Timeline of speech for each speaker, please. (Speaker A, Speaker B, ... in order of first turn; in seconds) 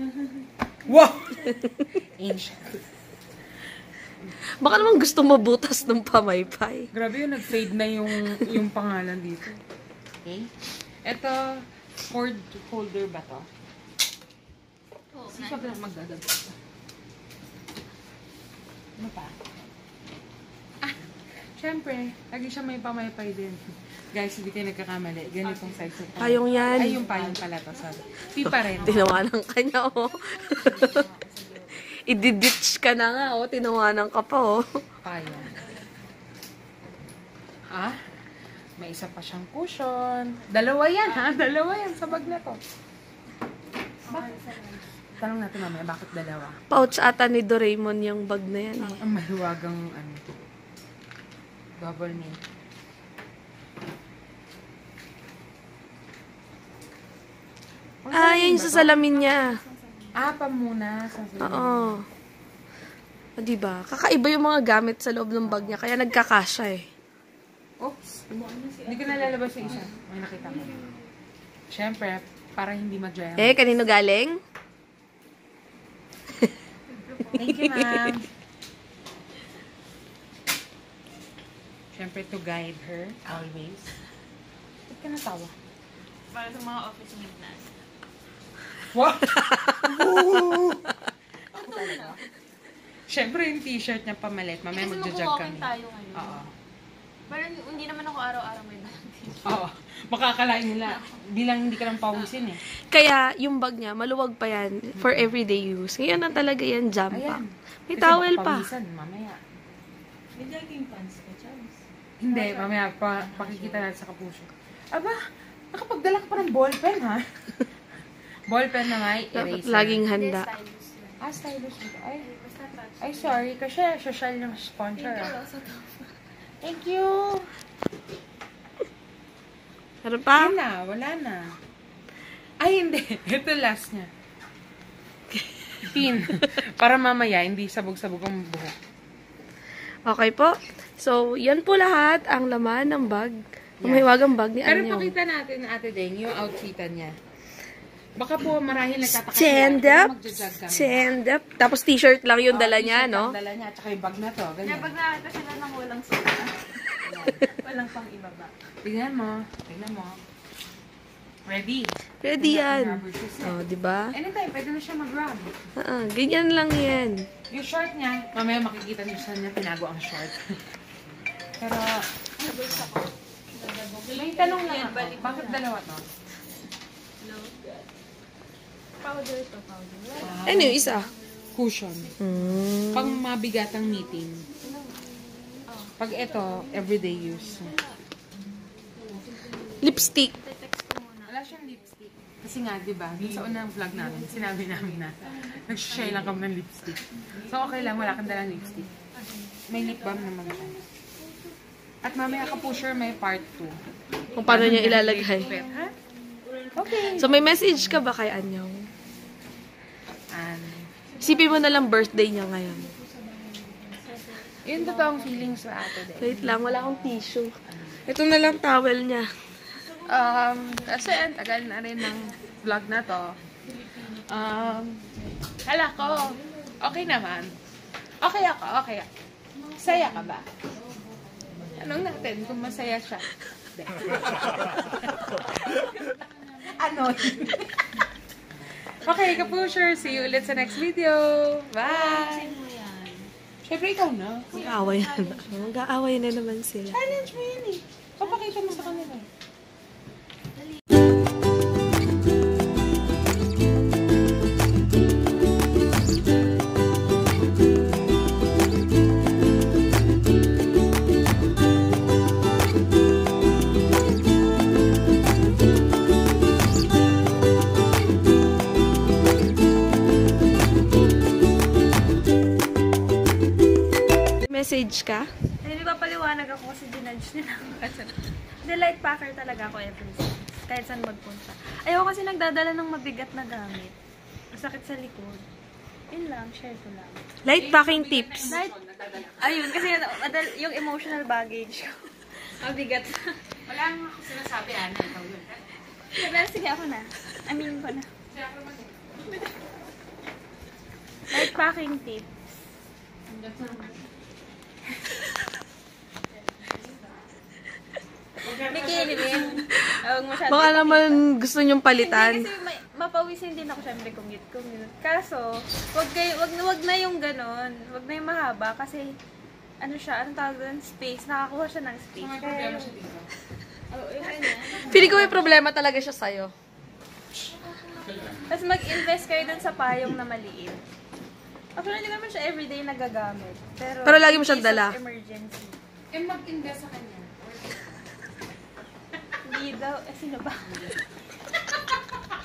Speaker A: 0.8-2.8, 6.9-9.6, 10.2-10.5, 11.0-11.5, 12.0-13.5, 15.3-16.6, 19.0-19.4, 21.6-23.6, 24.1-29.2, 35.0-35.6, 38.8-42.6, 44.1-44.3, 45.2-46.6, 49.0-50.2, 51.8-52.4, 58.0-58.9, 60.1-62.0, 65.4-65.8, 67.8-68.2, 68.9-70.7, 71.7-73.6, 77.3-78.3, 81.9-83.9, 84.9-85.5, 88.9-90.9, 91.5-92.2, 93.1-96.5, 99.4-102.6, 105.0-105.3, 107.1-109.4, 112.2-115.2, 115.7-117.6, 118.5-120.0, 121.2-122.2, 123.0-125.3, 126.6-127.5, 130.3-131.4, 132.6-134.1, 135.8-138.8, 143.8-144.1, 144.6-147.1, 148.2-151.0, 152.5-154.9, 157.0-157.5, 158.8-160.2, 161.5-163.6, 164.1-165.5, 167.5-170.4, 171.6-172.9, 174.1-176.1, 180.2-180.8, 181.5-182.2, 182.9-184.5, 186.0-187.8, 191.3-198.9, 199.7-200.8, 202.0-203.8, 204.4-205.9, 206.8-207.3, 210.3-210.9, 214.6-217.2, 217.7-218.1, 220.1-223.3, 224.0-225.0, 225.6-227.5, 228.2-229.1, 229.7-230.5, 231.8-238.0, 238.9-242.5, 243.6-244.7, 246.9-249.3, 287.5-289.8, 293.6-295.7, 298.3-299.2, 303.4-303.8, 308.4-309.6, 322.2-323.3, 336.1-338.0, 340.7-341.0
Speaker B: 1.6-1.9, 4.6-6.9, 26.2-27.1, 28.4-31.1, 32.0-34.8, 46.7-49.0, 58.1-59.6, 61.4-62.0, 63.4-66.9, 73.4-74.4, 77.5-78.1, 89.3-90.6, 102.9-108.7, 119.3-120.5, 130.0-130.5, 135.3-136.1, 140.1-145.1, 149.1-150.1, 150.7-153.3, 162.2-164.1, 165.8-167.3, 180.4-181.1, 182.2-183.2, 189.8-190.3, 204.3-205.5, 207.2-208.9, 211.2-212.9, 216.2-217.5, 218.1-219.3, 244.5-247.0, 274.4-275.3, 287.4-288.6, 310.4-312.5, 324.6-326.5, 334.0-335.0
Speaker C: 15.1-15.8, 25.4-29.2, 30.2-31.9, 35.3-35.9, 44.0-44.9, 58.7-60.3, 68.3-69.8, 70.4-71.1, 76.9-77.6, 86.3-87.7, 91.5-92.2, 94.7-96.4, 97.3-99.5, 100.8-101.2, 110.3-113.9, 120.1-121.2, 122.2-123.5, 125.0-126.0, 154.6-156.8, 157.5-158.5, 172.4-175.7, 177.2-177.6, 179.0-181.1, 184.6-187.9, 189.2-191.3, 199.2-199.5, 206.4-207.7, 211.5-211.7, 213.2-215.5, 239.0-240.7, 241.8-243.3, 244.5-245.9, 248.2-249.2, 275.6-283.9, 284.5-285.4, 286.1-287.3, 289.2-293.4, 296.1-298.1, 301.3-302.3, 303.6-303.9, 308.5-311.2, 311.9-319.2, 319.8-323.0, 323.9-325.4, 327.7-330.8, 331.8-335.8, 339.4-340.9